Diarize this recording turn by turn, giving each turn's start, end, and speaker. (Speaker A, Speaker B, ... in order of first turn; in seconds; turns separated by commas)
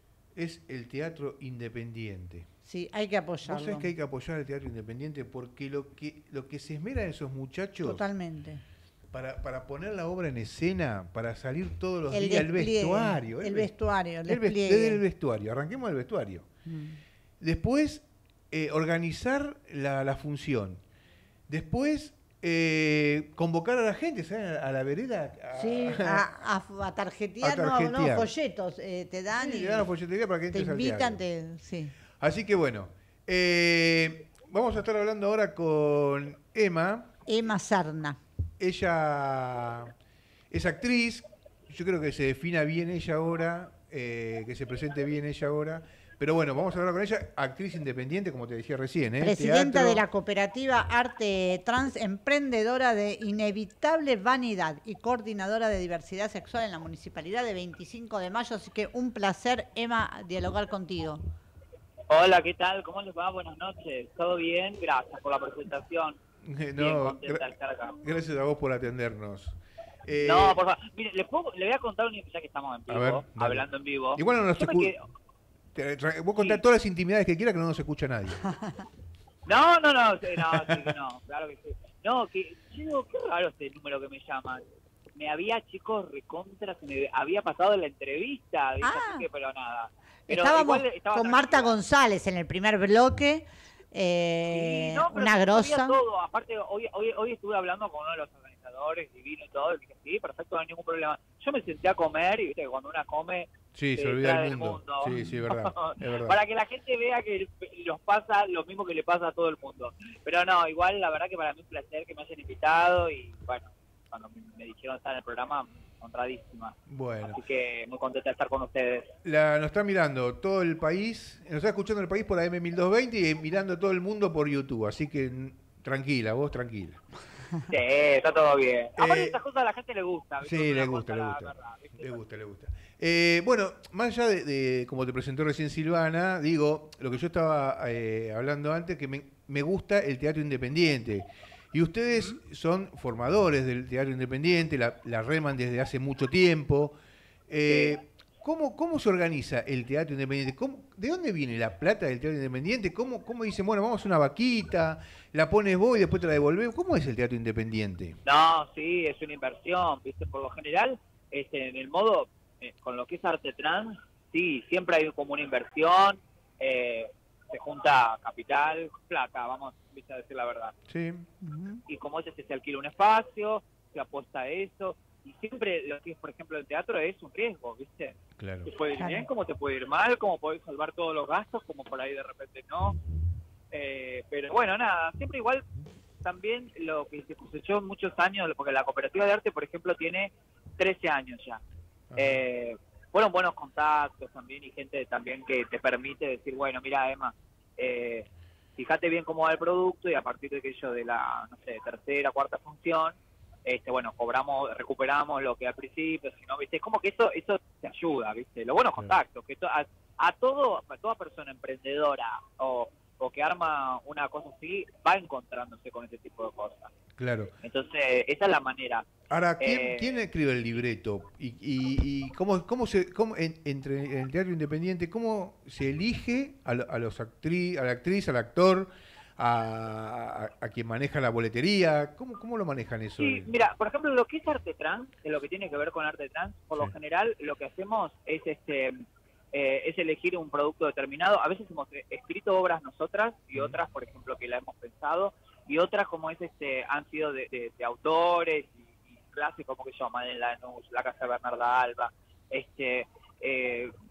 Speaker A: 0.3-2.5, Speaker B: 2.6-3.9, Speaker A: 3.5-8.0, Speaker B: 7.8-8.6, Speaker A: 9.1-16.5, Speaker B: 12.1-15.0, Speaker B: 16.7-17.0, Speaker A: 17.4-20.8, Speaker A: 21.5-26.2, Speaker B: 25.5-29.9, Speaker A: 27.4-28.3, Speaker A: 29.3-31.2, Speaker B: 30.5-31.9, Speaker A: 32.2-37.1, Speaker B: 37.3-38.2, Speaker A: 38.6-40.0, Speaker A: 40.5-50.0, Speaker B: 49.2-61.2, Speaker C: 62.1-66.2, Speaker A: 66.5-70.6, Speaker C: 66.8-68.0, Speaker C: 70.2-75.0, Speaker A: 72.9-74.9, Speaker A: 75.8-78.5, Speaker C: 76.4-76.6, Speaker B: 78.4-78.8, Speaker C: 79.5-84.6, Speaker C: 85.2-91.8, Speaker B: 88.8-89.2, Speaker B: 90.3-96.0, Speaker C: 94.5-119.1, Speaker A: 103.7-106.4, Speaker B: 105.1-105.4, Speaker A: 116.9-117.4, Speaker A: 119.2-127.0, Speaker C: 127.7-132.2, Speaker A: 129.0-129.4, Speaker A: 130.4-146.9, Speaker A: 147.5-158.2, Speaker C: 147.7-148.0, Speaker C: 158.2-170.7, Speaker A: 170.9-171.3, Speaker B: 171.4-171.8, Speaker C: 171.9-183.0, Speaker A: 178.4-178.7, Speaker B: 179.0-179.3, Speaker C: 183.7-185.7, Speaker C: 186.2-191.6, Speaker A: 192.1-192.4, Speaker C: 192.2-216.9, Speaker A: 217.2-217.5, Speaker C: 217.6-219.1, Speaker A: 219.3-233.5, Speaker C: 219.6-220.2, Speaker C: 233.2-239.0, Speaker C: 239.5-253.9